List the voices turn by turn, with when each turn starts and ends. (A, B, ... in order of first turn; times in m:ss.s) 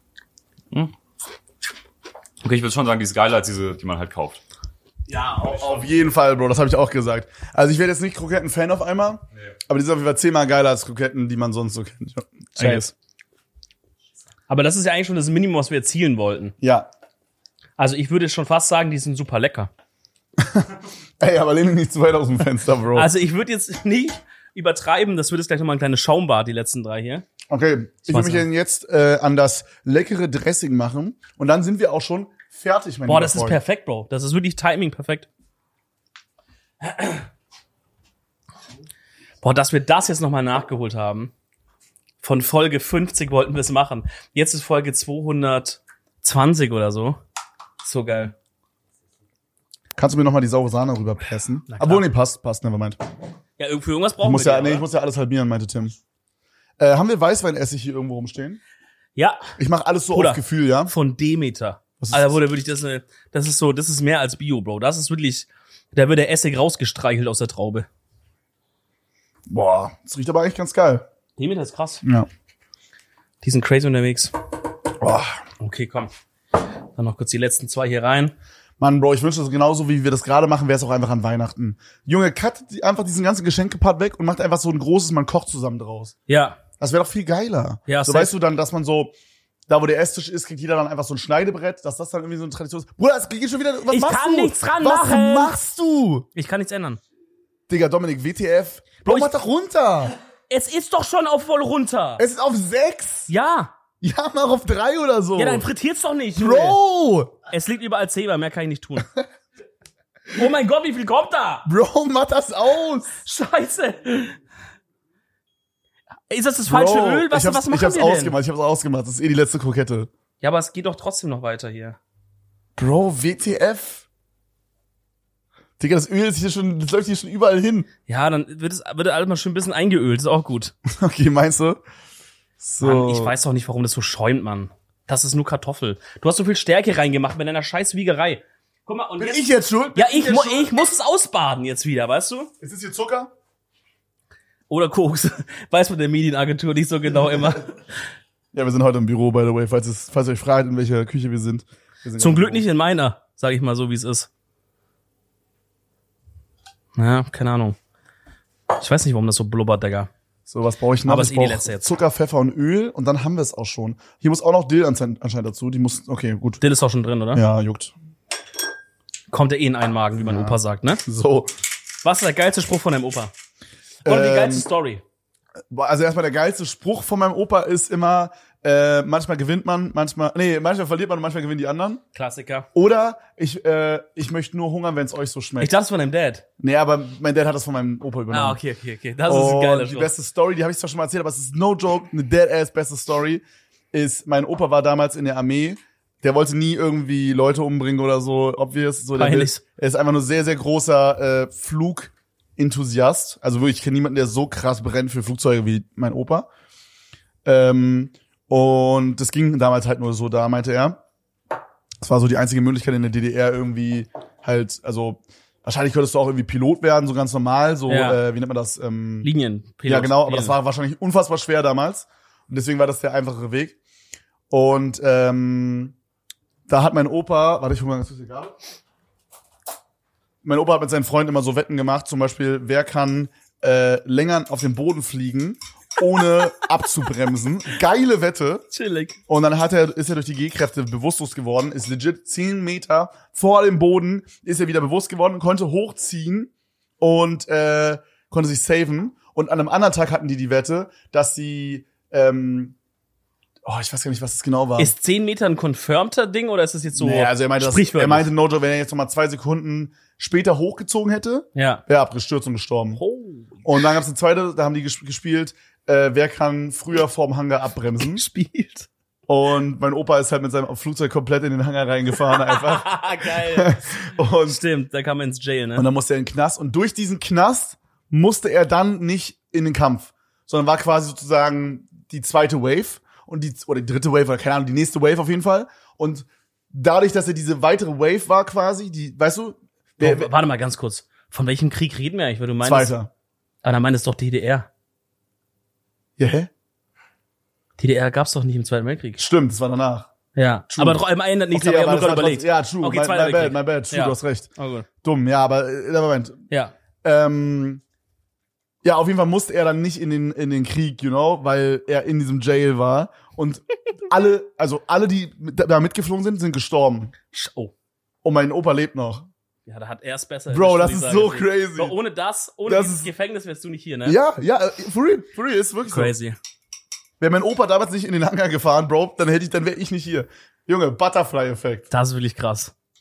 0:02.4-0:04.4 A
0:05.1-0:12.9 B
0:12.6-0:12.8 C
0:14.5-0:16.6 C
0:16.6-0:16.9 B
0:17.8-0:19.7 C
0:20.4-0:20.7 B
0:21.2-0:23.1 B
0:22.9-0:27.3 C
0:27.5-0:33.6 B
0:28.1-0:28.5 C
0:33.1-0:35.3 C
0:36.8-0:37.2 C
0:39.4-0:41.3 C
0:42.2-0:47.2 C
0:47.8-0:48.3 C
0:50.0-0:53.0 B
0:51.7-0:52.1 C
0:53.6-0:54.9 C
0:54.2-0:56.0 B
0:56.8-0:58.6 B
0:59.2-0:59.5 C
0:59.6-1:00.9 B
1:00.1-1:07.9 C
1:02.0-1:02.4 B
1:09.5-1:11.0 B
1:11.4-1:12.0 C
1:12.0-1:12.3 B
1:13.4-1:14.3 C
1:15.0-1:15.4 B
1:15.6-1:16.1 C
1:17.0-1:18.4 C
1:18.8-1:26.1 B
1:26.3-1:26.6 C
1:26.8-1:29.1 B
1:27.9-1:28.3 C
1:29.7-1:36.3 B
1:33.9-1:35.6 C
1:36.4-1:37.0 C
1:37.7-1:40.1 B
1:39.0-1:39.3 C
1:40.5-1:42.2 C
1:42.2-1:43.3 B
1:43.3-1:43.7 C
1:44.0-1:45.7 B
1:45.4-1:46.8 C
1:46.4-1:47.4 B
1:47.5-1:49.1 C
1:50.3-1:51.7 C
1:51.7-1:53.2 B
1:53.1-1:54.4 C
1:56.3-1:58.4 C
1:56.7-2:00.1 B
2:00.4-2:02.0 C
2:02.8-2:04.1 B
2:05.8-2:07.9 B
2:08.1-2:10.7 C
2:10.9-2:11.8 B
2:12.6-2:13.3 B
2:12.8-2:22.5 C
2:19.2-2:20.7 B
2:22.6-2:23.3 B
2:24.7-2:27.8 C
2:28.5-2:32.6 B
2:32.2-2:34.3 C
2:37.0-2:37.8 C
2:38.7-2:40.1 C
2:40.5-2:46.6 B
2:41.0-2:41.9 C
2:46.6-2:47.4 C
2:47.3-2:47.9 B
2:49.3-2:51.0 C
2:50.2-2:51.5 B
2:52.0-2:53.3 C
2:54.0-2:54.7 B
2:54.0-2:55.0 C
2:55.7-3:02.0 B
3:02.1-3:02.7 C
3:02.7-3:05.7 B
3:05.6-3:06.4 C
3:06.6-3:08.6 B
3:08.3-3:10.1 C
3:09.3-3:26.5 B
3:19.2-3:19.6 C
3:27.4-3:31.0 B
3:32.0-3:39.3 B
3:37.9-3:38.2 C
3:39.2-3:40.6 C
3:39.9-3:43.8 B
3:44.5-3:46.0 B
3:46.7-3:48.6 B
3:50.4-3:58.7 B
3:58.7-3:59.2 C
3:59.3-4:12.8 B
4:13.7-4:14.9 B
4:14.8-4:18.3 C
4:16.9-4:23.0 B
4:21.6-4:21.8 C
4:23.0-4:23.9 C
4:23.6-4:28.2 B
4:28.2-4:28.9 C
4:29.3-4:34.6 B
4:32.2-4:33.8 C
4:34.4-4:35.9 C
4:35.8-4:50.3 B
4:50.0-4:52.9 C
4:52.6-4:53.1 B
4:53.6-4:54.7 C
4:56.2-4:56.5 B
4:57.8-4:59.2 C
4:59.2-5:00.1 B
5:00.4-5:04.9 C
5:00.7-5:04.5 B
5:05.0-5:06.4 B
5:07.0-5:07.8 B
5:08.8-5:17.1 B
5:17.3-5:17.7 C
5:18.2-5:19.3 B
5:19.7-5:24.2 C
5:20.5-5:22.0 B
5:22.7-5:23.1 B
5:24.0-5:26.1 B
5:25.9-5:26.4 C
5:27.2-5:31.9 B
5:31.9-5:32.7 C